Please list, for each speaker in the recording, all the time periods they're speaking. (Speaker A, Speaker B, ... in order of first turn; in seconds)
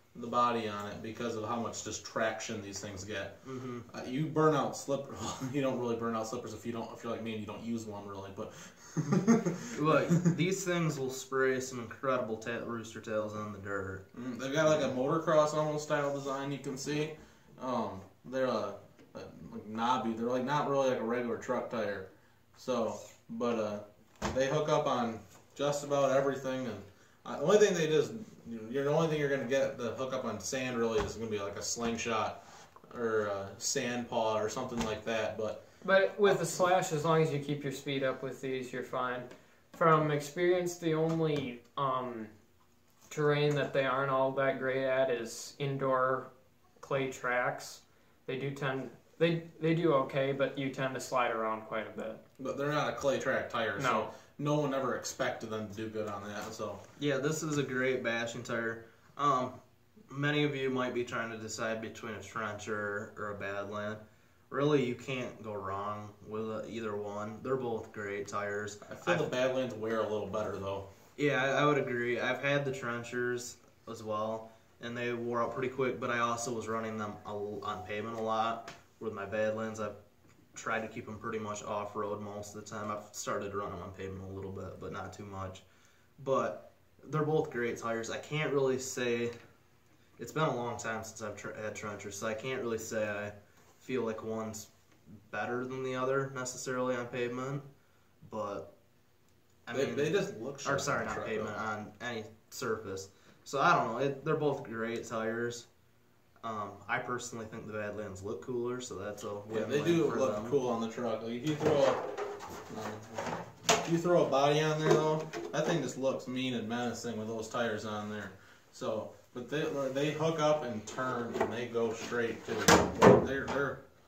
Speaker A: 0.1-10.3, 14.1-35.7, 36.2-36.7, 52.4-56.8, 68.8-70.9, 99.7-101.6, 109.5-112.1, 112.7-123.8
Speaker B: 3.4-3.9, 9.7-14.1, 57.0-69.3, 71.2-80.0, 80.5-85.6, 86.2-89.3, 90.2-94.7, 95.3-97.7, 98.2-98.7, 99.7-105.7, 106.4-110.6
Speaker C: 35.8-42.3, 43.1-52.2, 53.8-54.1